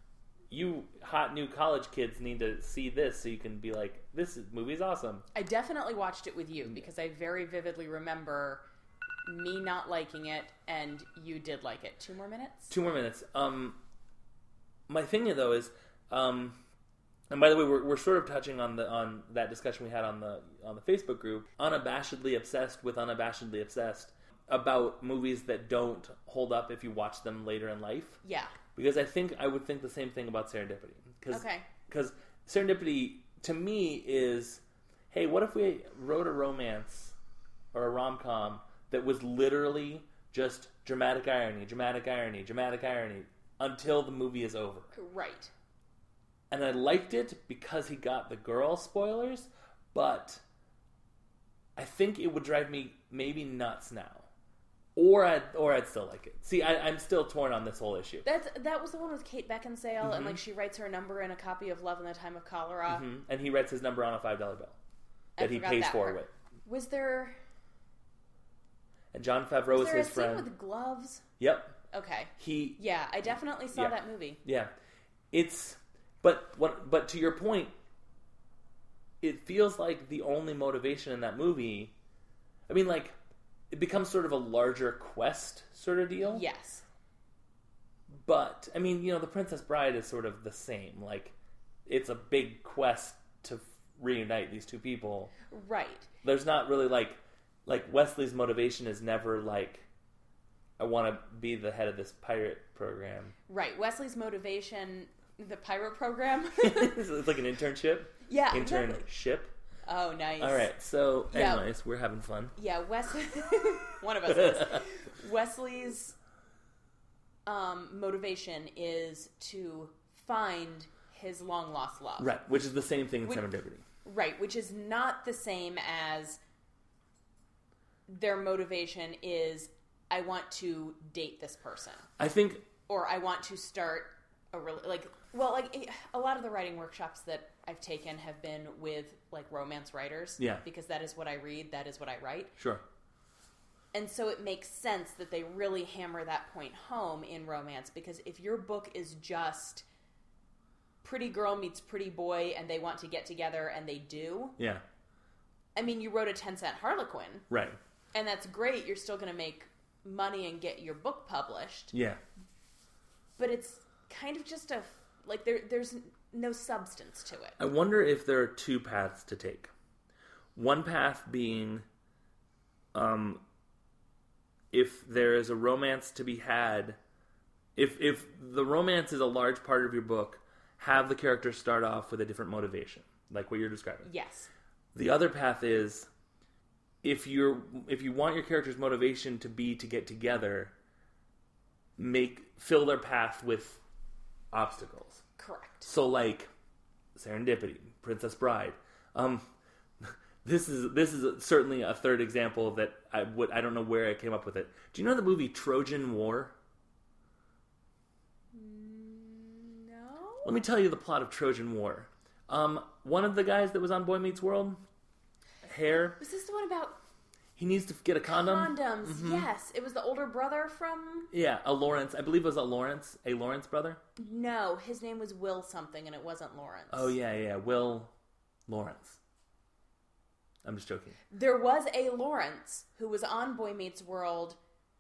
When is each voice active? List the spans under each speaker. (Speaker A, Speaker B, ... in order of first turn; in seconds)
Speaker A: 0.5-5.3, 12.7-13.8, 14.9-16.6, 17.3-28.2, 28.8-37.1, 37.7-44.9, 46.5-50.4, 51.8-54.3, 55.0-58.3, 60.0-60.4, 62.9-64.8, 65.4-66.3, 69.1-70.5, 71.4-71.8, 72.4-72.8, 73.7-74.7, 75.3-77.7, 79.2-82.0, 82.7-83.2, 83.7-86.4, 88.1-91.3, 91.9-95.3, 96.2-99.9, 100.8-103.3, 106.6-109.5, 110.4-112.5, 114.4-114.8, 122.2-123.8, 132.2-132.7, 142.6-142.8, 154.6-154.8, 157.5-157.8, 161.9-162.2, 167.6-169.7, 170.6-171.8, 172.9-173.4, 174.7-177.0, 177.8-184.1, 184.9-186.1, 187.0-190.7, 192.0-193.8, 194.5-195.2, 195.8-196.5, 197.2-199.5, 200.0-206.5, 210.4-214.8, 215.6-216.2, 217.6-219.5, 221.3-224.0, 226.9-228.1, 228.7-229.2, 230.7-231.2
Speaker B: 5.3-8.6, 9.2-12.7, 28.2-28.6, 31.3-31.7, 44.9-45.5, 58.2-63.0, 65.4-67.4, 69.7-71.2, 71.9-74.4, 86.2-86.8, 95.5-96.1, 103.5-107.0, 108.3-109.1, 109.8-110.7, 111.3-111.7, 112.6-116.2, 117.5-122.3, 124.0-126.4, 128.1-132.1, 132.9-142.6, 143.9-149.8, 151.0-154.6, 155.8-157.5, 158.1-161.9, 163.4-167.6, 184.1-184.5, 195.4-195.9, 208.5-210.5, 216.2-217.0, 218.3-221.3, 224.2-227.1, 231.3-234.6